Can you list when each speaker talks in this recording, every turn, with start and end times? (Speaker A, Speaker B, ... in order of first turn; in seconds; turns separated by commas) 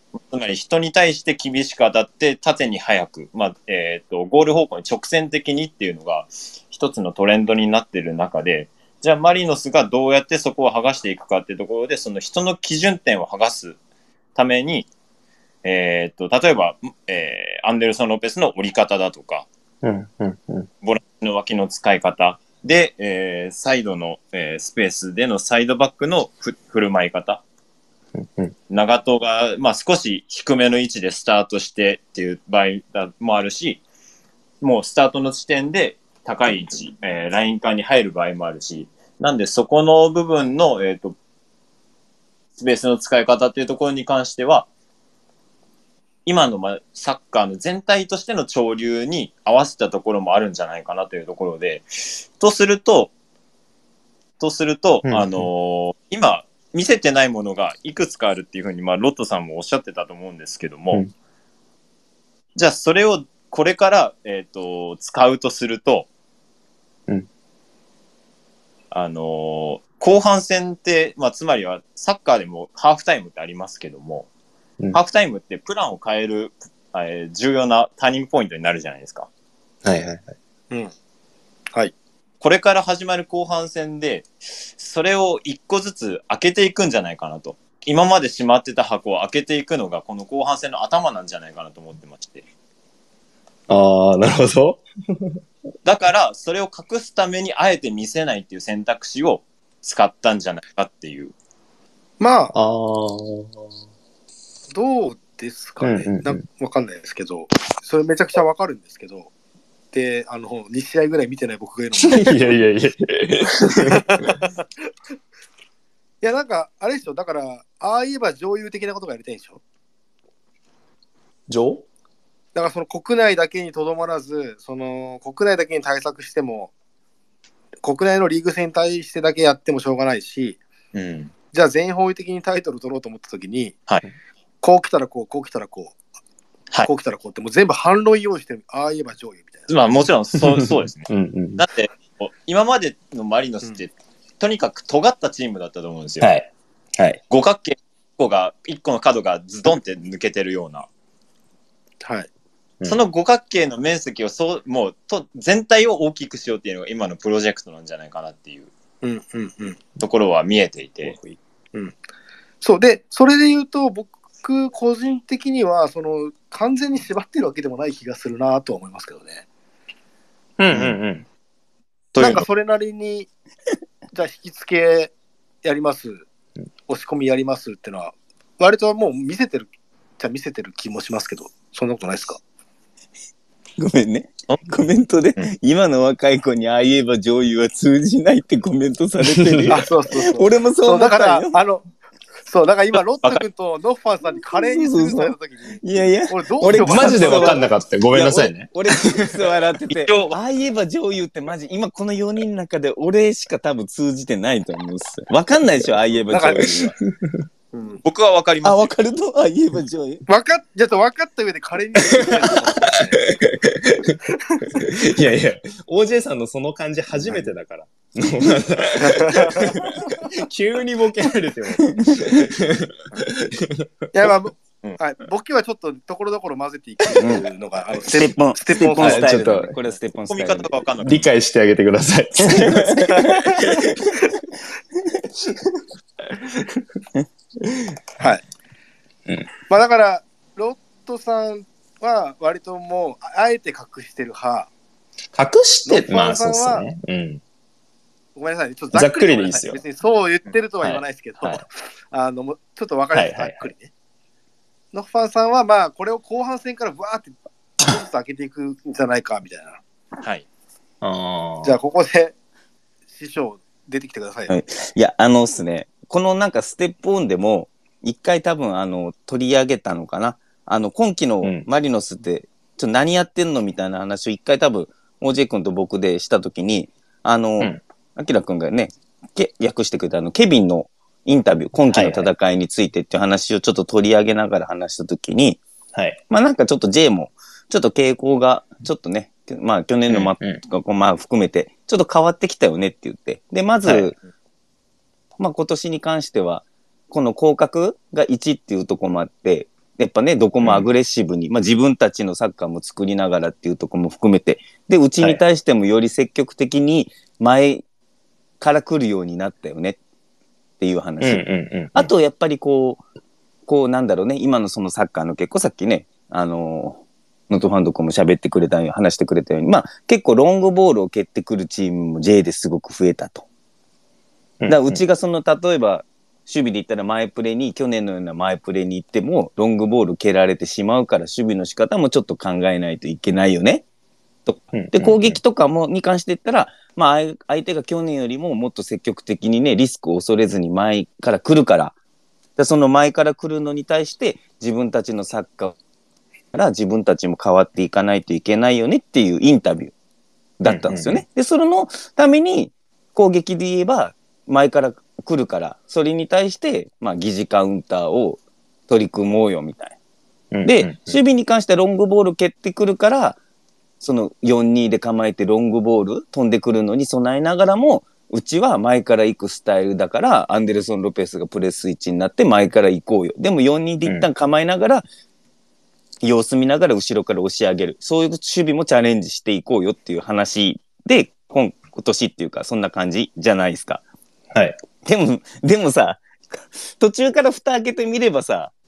Speaker A: 0.1-13.8, Speaker A: 14.3-14.9, Speaker A: 15.6-19.5, Speaker B: 19.8-20.7, Speaker A: 20.8-27.4, Speaker B: 28.2-28.5, Speaker A: 28.7-33.8, Speaker A: 34.6-41.2, Speaker A: 42.6-44.7, Speaker A: 46.3-53.1, Speaker A: 54.4-61.0, Speaker B: 55.1-55.5, Speaker A: 62.5-66.1, Speaker A: 68.9-74.3, Speaker A: 74.9-79.3, Speaker B: 79.8-80.3, Speaker A: 82.4-92.5, Speaker B: 93.7-95.4, Speaker A: 95.8-101.3, Speaker C: 102.2-102.5, Speaker B: 102.5-103.6, Speaker C: 104.7-109.3, Speaker B: 105.8-106.4, Speaker C: 109.9-112.5, Speaker B: 112.0-114.2, Speaker C: 113.7-114.5, Speaker C: 116.2-119.6, Speaker B: 121.5-121.8, Speaker C: 122.5-126.7, Speaker C: 127.8-130.6, Speaker A: 130.9-131.3, Speaker C: 131.5-133.8, Speaker C: 134.6-136.0, Speaker C: 136.8-139.7, Speaker A: 139.7-141.1, Speaker B: 141.1-141.6, Speaker A: 141.6-146.3, Speaker B: 146.2-147.2, Speaker A: 147.3-150.9, Speaker C: 152.0-152.3, Speaker A: 152.8-158.7, Speaker C: 159.0-159.8, Speaker A: 160.0-161.2, Speaker C: 161.1-162.0, Speaker C: 162.6-169.4, Speaker B: 170.6-171.3, Speaker A: 170.7-171.0, Speaker C: 172.2-173.3, Speaker C: 174.1-176.2, Speaker C: 176.9-182.4, Speaker D: 183.8-191.6, Speaker B: 189.2-189.8, Speaker C: 189.7-191.9, Speaker C: 192.4-197.7, Speaker D: 194.2-206.9, Speaker B: 196.8-199.3, Speaker A: 199.9-200.3, Speaker C: 206.3-206.9, Speaker A: 207.7-208.9, Speaker D: 208.6-210.2, Speaker C: 210.3-213.2, Speaker B: 213.4-214.2, Speaker C: 214.5-214.9, Speaker B: 214.8-223.9, Speaker C: 219.0-219.9, Speaker D: 221.8-222.3, Speaker C: 224.1-229.6, Speaker D: 227.2-227.5, Speaker D: 228.1-230.8, Speaker B: 229.0-229.8, Speaker A: 230.3-231.2, Speaker B: 231.0-233.8, Speaker D: 232.5-233.2, Speaker C: 233.1-234.1, Speaker B: 236.5-236.8, Speaker C: 239.7-244.7, Speaker B: 245.3-247.4, Speaker C: 245.9-246.8, Speaker C: 248.4-253.9, Speaker B: 248.9-249.8, Speaker B: 250.8-251.6, Speaker B: 253.1-253.7, Speaker C: 254.9-259.8, Speaker A: 260.2-260.4, Speaker B: 261.0-261.8, Speaker C: 261.6-262.3, Speaker C: 263.1-264.6, Speaker D: 264.5-285.6, Speaker B: 281.9-282.3, Speaker B: 285.9-286.2, Speaker D: 286.3-294.1, Speaker B: 290.1-290.6, Speaker B: 293.9-294.1, Speaker D: 295.4-307.8, Speaker B: 300.6-300.9, Speaker D: 308.6-310.0, Speaker D: 310.8-313.0, Speaker B: 311.2-312.1, Speaker D: 313.7-323.4, Speaker B: 324.6-325.0, Speaker D: 324.7-333.9, Speaker D: 334.5-341.9, Speaker B: 334.7-335.4, Speaker D: 342.6-345.8, Speaker D: 346.5-349.9, Speaker D: 350.6-360.0, Speaker B: 350.7-351.2, Speaker B: 360.5-361.2, Speaker D: 360.6-363.4, Speaker D: 364.0-375.1, Speaker D: 376.2-384.0, Speaker D: 385.1-388.7